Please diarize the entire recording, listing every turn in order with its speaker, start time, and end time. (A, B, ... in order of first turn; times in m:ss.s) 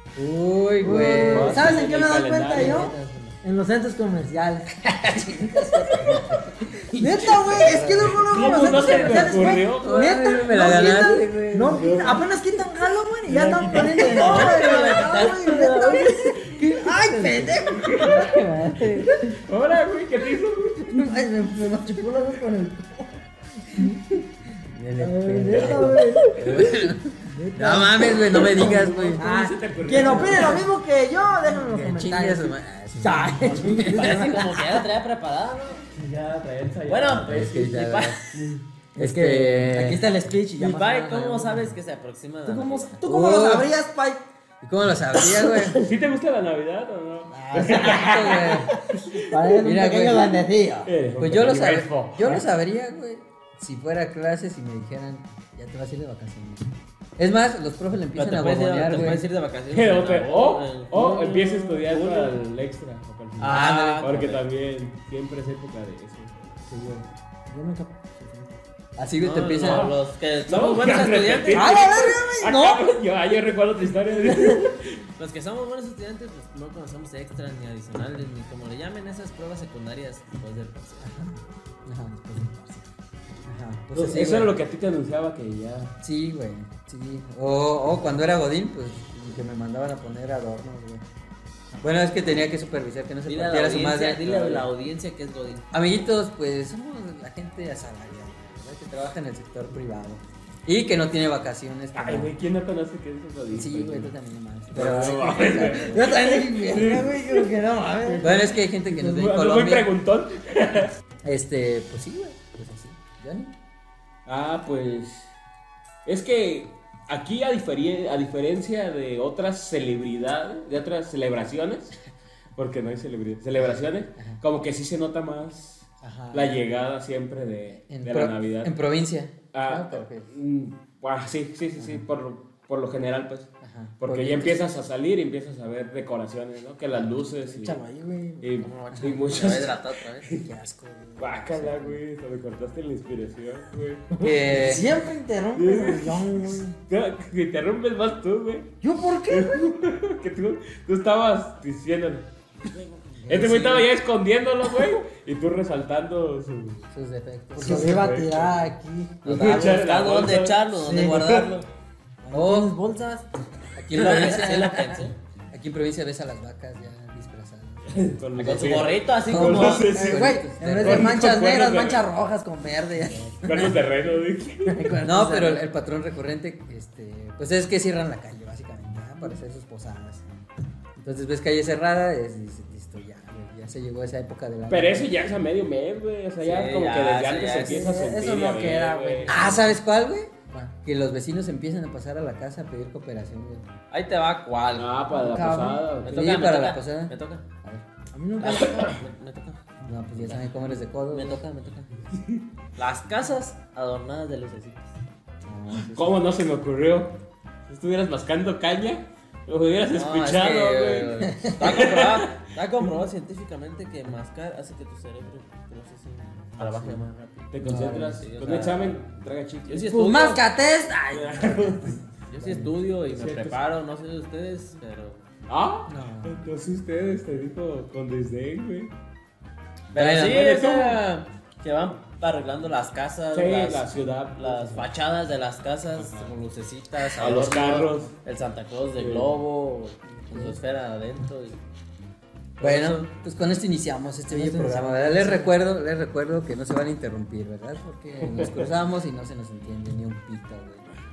0:00.1-0:01.8 A
0:00.8-0:04.7 B
0:01.2-0:03.0 C
0:02.5-0:03.1 A
0:05.1-0:11.9 A
0:06.9-0:18.3 B
0:08.1-0:11.0 C
0:11.8-0:12.3 C
0:13.3-0:14.8 C
0:13.7-0:14.9 A
0:14.0-0:16.3 D
0:17.0-0:19.3 A
0:17.6-0:18.3 C
0:19.0-0:21.0 C
0:20.9-0:24.2 B
0:24.6-0:29.3 A
0:25.0-0:26.7 B
0:27.2-0:34.6 B
0:28.3-0:30.6 C
0:30.0-0:30.5 A
0:31.6-0:34.1 A
0:33.8-0:35.9 D
0:35.9-0:37.7 C
0:36.9-0:38.4 D
0:37.2-0:38.2 A
0:38.9-0:41.6 B
0:39.0-0:40.0 A
0:40.6-0:43.0 D
0:42.4-0:44.2 B
0:43.0-0:43.7 A
0:44.6-0:45.8 A
0:45.6-0:49.2 C
0:47.3-0:50.9 B
0:47.7-0:48.7 A
0:49.5-0:50.4 A
0:50.8-0:52.4 C
0:51.2-0:59.2 A
0:58.1-1:02.4 D
0:59.7-1:06.5 C
1:03.4-1:04.4 D
1:03.4-1:04.0 A
1:07.5-1:08.6 B
1:09.0-1:09.9 A
1:09.2-1:11.7 D
1:09.6-1:09.9 C
1:10.4-1:15.0 C
1:11.5-1:12.9 A
1:11.8-1:12.3 B
1:15.2-1:21.1 D
1:21.0-1:22.8 A
1:23.5-1:24.6 A
1:23.9-1:25.9 C
1:26.0-1:31.0 A
1:31.8-1:34.7 A
1:33.2-1:35.7 D
1:35.7-1:42.3 A
1:41.9-1:44.1 C
1:43.5-1:46.4 A
1:44.7-1:47.5 C
1:45.7-1:48.5 B
1:48.0-1:50.9 C
1:48.2-1:49.9 A
1:51.2-1:53.5 A
1:54.2-1:55.3 C
1:56.0-2:02.0 C
2:02.6-2:08.7 C
2:06.0-2:06.6 A
2:07.9-2:10.3 A
2:09.5-2:13.5 C
2:11.8-2:12.0 A
2:13.6-2:14.6 A
2:14.0-2:17.8 C
2:17.2-2:18.5 B
2:18.4-2:20.5 C
2:18.6-2:20.3 D
2:18.9-2:19.2 A
2:20.4-2:22.0 A
2:21.2-2:24.0 C
2:24.1-2:26.8 B
2:24.2-2:25.0 A
2:25.5-2:32.3 C
2:28.8-2:29.7 B
2:32.6-2:33.9 A
2:33.3-2:36.8 C
2:36.9-2:38.0 A
2:37.5-2:39.4 B
2:37.6-2:38.7 C
2:39.2-2:41.5 C
2:39.2-2:41.7 D
2:40.8-2:41.4 B
2:42.2-2:43.3 B
2:42.3-2:42.7 A
2:43.8-2:51.2 A
2:43.9-2:45.1 D
2:47.9-2:52.0 C
2:48.4-2:49.9 D
2:49.9-2:53.8 B
2:53.4-2:55.0 C
2:54.7-2:55.6 B
2:54.9-3:00.2 A
3:01.0-3:05.1 A
3:04.7-3:09.5 C
3:06.4-3:08.0 D
3:07.6-3:09.8 B
3:09.2-3:13.7 A
3:13.9-3:14.9 D
3:14.7-3:16.2 C
3:15.1-3:15.8 B
3:16.0-3:17.4 D
3:16.1-3:17.8 A
3:18.1-3:18.9 B
3:18.4-3:19.6 D
3:19.8-3:21.4 A
3:21.1-3:21.9 D
3:22.8-3:24.9 D
3:25.4-3:26.0 A
3:25.8-3:32.4 C
3:29.9-3:37.5 D
3:36.6-3:37.0 A
3:37.5-3:40.4 C
3:37.6-3:38.2 A
3:38.2-3:39.0 D
3:39.7-3:40.2 D
3:39.9-3:42.0 B
3:41.1-3:42.0 C
3:42.3-3:45.2 D
3:42.4-3:42.7 A
3:43.1-3:43.6 C
3:45.5-3:48.9 C
3:45.9-3:46.4 A
3:49.9-4:01.6 D
3:49.9-3:50.4 A
3:50.0-3:51.0 C
3:53.3-3:54.9 C
3:56.0-3:56.3 C
3:57.2-3:58.1 C
3:59.0-3:59.4 C
4:00.3-4:00.6 A
4:02.6-4:10.9 A
4:02.6-4:03.0 D
4:04.3-4:05.6 B
4:08.1-4:08.6 C